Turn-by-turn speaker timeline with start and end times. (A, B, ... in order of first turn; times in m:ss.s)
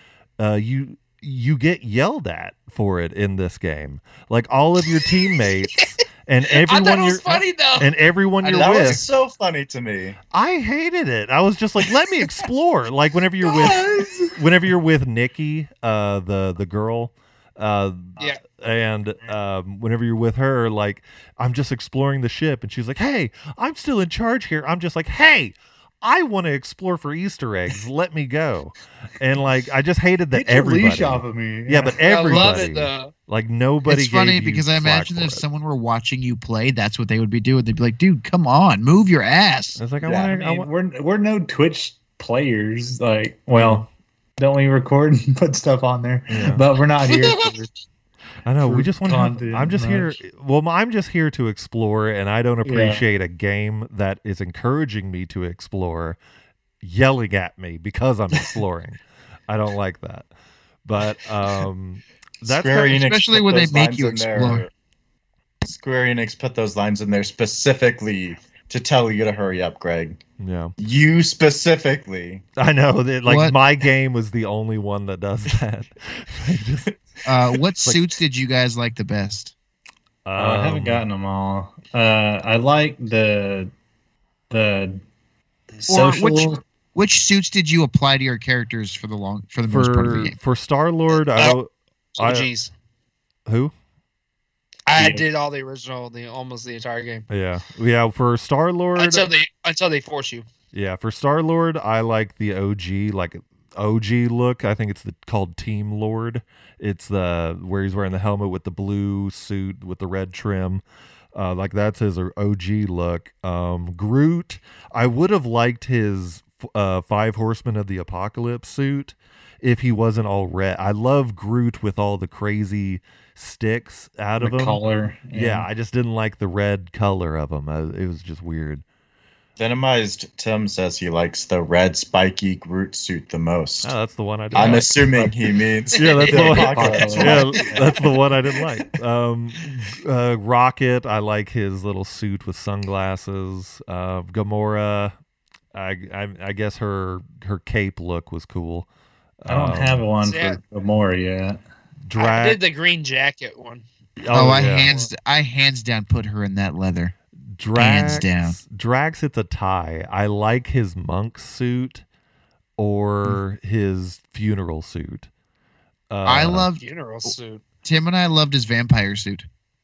0:00.4-0:09.0 A
0:04.9-0:05.8 B
0:06.5-0:07.9 B
0:08.4-0:09.0 C
0:08.5-0:10.2 D
0:10.3-0:35.4 A
0:30.3-0:32.6 E
0:32.0-0:33.1 B
0:33.8-0:39.8 C
0:39.8-0:40.7 A
0:40.0-0:40.3 D
0:40.3-0:43.9 E
0:43.5-0:43.8 A
0:44.4-0:47.7 E
0:46.3-0:46.6 A
0:47.1-0:47.5 B
0:48.4-0:56.2 A
0:48.6-0:50.2 E
0:52.6-0:53.0 E
0:56.8-1:00.3 A
1:00.8-1:02.9 A
1:02.4-1:04.7 D
1:02.6-1:04.7 C
1:05.6-1:10.2 D
1:10.4-1:10.7 A
1:10.8-1:12.4 D
1:12.6-1:16.9 A
1:13.2-1:13.6 C
1:17.2-1:19.5 C
1:17.8-1:18.1 A
1:20.2-1:21.0 A
1:20.4-1:23.7 E
1:24.5-1:25.0 E
1:25.8-1:26.6 E
1:25.9-1:30.4 C
1:29.7-1:32.5 A
1:32.2-1:32.7 B
1:33.5-1:33.7 A
1:34.9-1:37.2 B
1:35.0-1:35.2 E
1:37.3-1:39.3 A
1:39.0-1:40.5 B
1:40.7-1:50.8 A
1:51.3-2:04.8 A
2:04.4-2:05.6 E
2:05.3-2:08.8 A
2:09.6-2:13.9 D
2:13.8-2:15.1 A
2:14.5-2:18.1 D
2:14.5-2:15.3 E
2:15.9-2:16.5 B
2:16.0-2:25.1 A
2:16.2-2:18.0 E
2:25.7-2:28.9 A
2:29.4-2:30.1 A
2:29.5-2:31.6 E
2:30.2-2:30.6 B
2:32.0-2:32.6 A
2:32.2-2:33.8 B
2:34.2-2:34.9 A
2:34.3-2:37.1 C
2:37.5-2:42.0 A
2:37.7-2:38.6 C
2:42.8-2:45.3 A
2:46.1-2:46.7 A
2:46.2-2:46.8 C
2:46.8-2:47.6 B
2:47.8-2:49.4 C